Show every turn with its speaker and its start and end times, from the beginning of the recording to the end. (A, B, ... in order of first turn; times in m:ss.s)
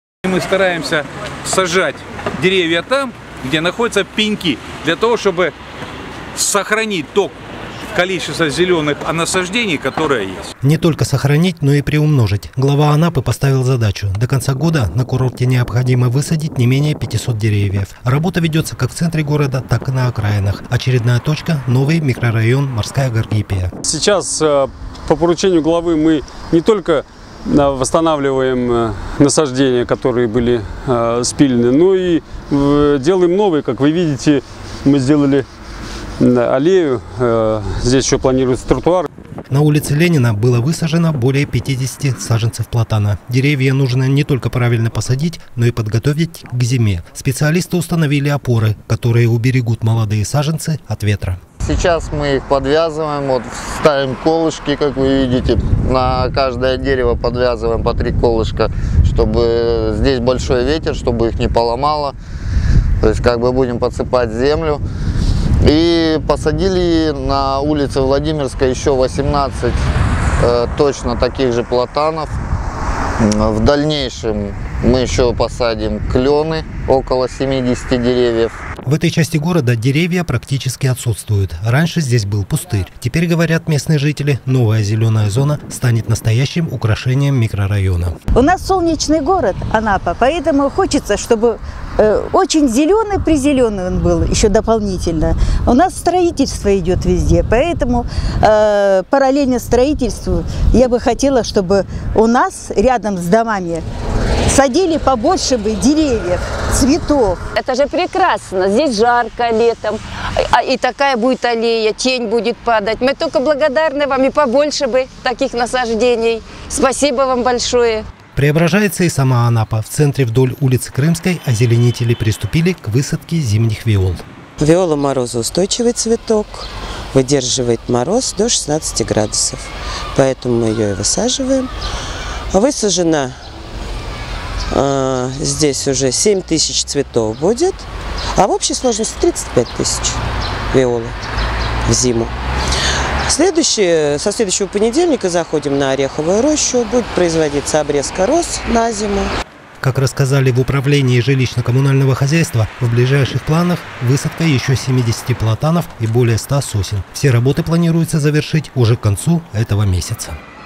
0:00.2-0:05.5 A
0:06.4-0:07.3 A
0:07.9-0:10.4 A
0:10.6-0:23.7 B
0:23.8-0:35.5 C
0:36.2-0:39.1 C
0:39.5-0:51.4 B
0:51.6-1:02.1 D
1:03.0-1:04.8 D
1:05.6-1:09.8 D
1:10.4-1:12.3 D
1:13.2-1:18.5 D
1:18.8-1:28.1 B
1:28.3-1:43.8 E
1:44.5-1:47.4 E
1:47.6-1:58.0 F
1:58.4-2:04.2 B
2:04.6-2:11.7 G
2:12.5-2:13.4 G
2:14.7-2:20.2 G
2:20.7-2:21.2 G
2:21.9-2:22.3 G
2:23.3-2:29.3 G
2:29.8-2:40.4 B